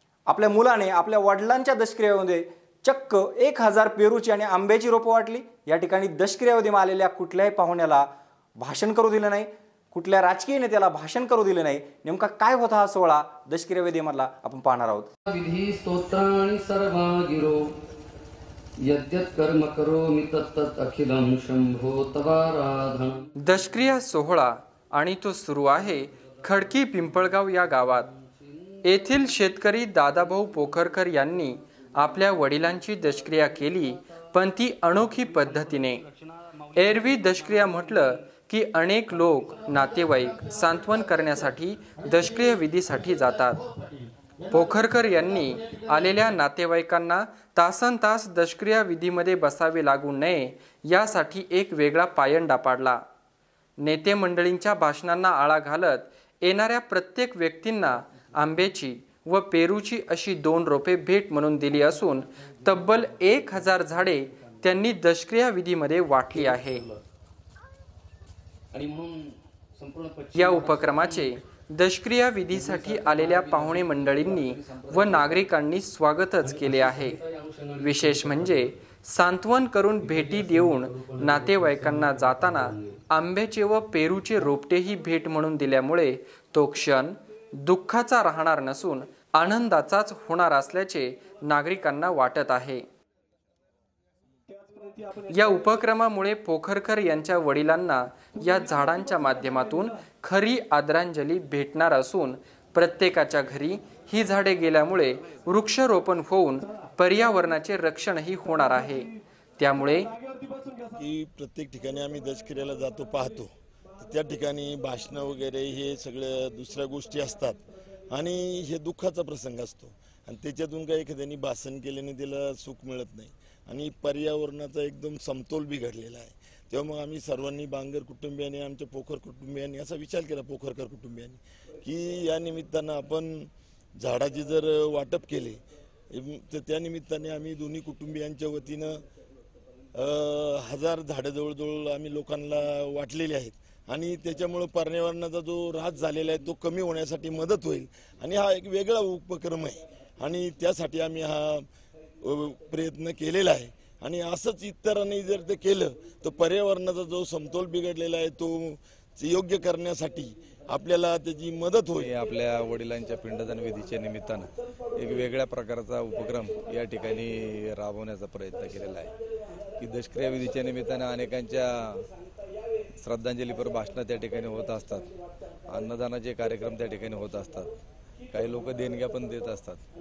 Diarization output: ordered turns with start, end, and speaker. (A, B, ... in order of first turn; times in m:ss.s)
0:00.3-0:08.1 A
0:08.6-0:15.1 A
0:15.3-0:17.7 B
0:18.8-0:23.3 B
0:23.4-0:28.1 C
0:28.8-0:36.0 C
0:35.4-0:37.9 B
0:36.7-0:43.6 C
0:44.5-0:53.0 C
0:53.8-1:06.8 C
1:06.3-1:07.0 B
1:08.7-1:11.3 B
1:10.3-1:17.2 C
1:12.5-1:15.5 B
1:16.4-1:18.7 B
1:17.8-1:32.8 C
1:20.0-1:23.0 B
1:35.2-1:50.1 C
1:51.1-1:53.4 D
1:54.0-1:57.6 D
1:58.1-2:13.2 D
2:14.0-2:15.5 D
2:16.2-2:18.8 D
2:20.1-2:29.7 D
2:30.2-2:31.4 D
2:32.4-2:38.5 D
2:39.2-2:40.2 D
2:40.8-2:42.0 D
2:42.0-2:49.1 E
2:49.8-2:52.0 E
2:53.0-2:55.1 E
2:55.7-2:57.7 E
2:58.3-2:59.8 E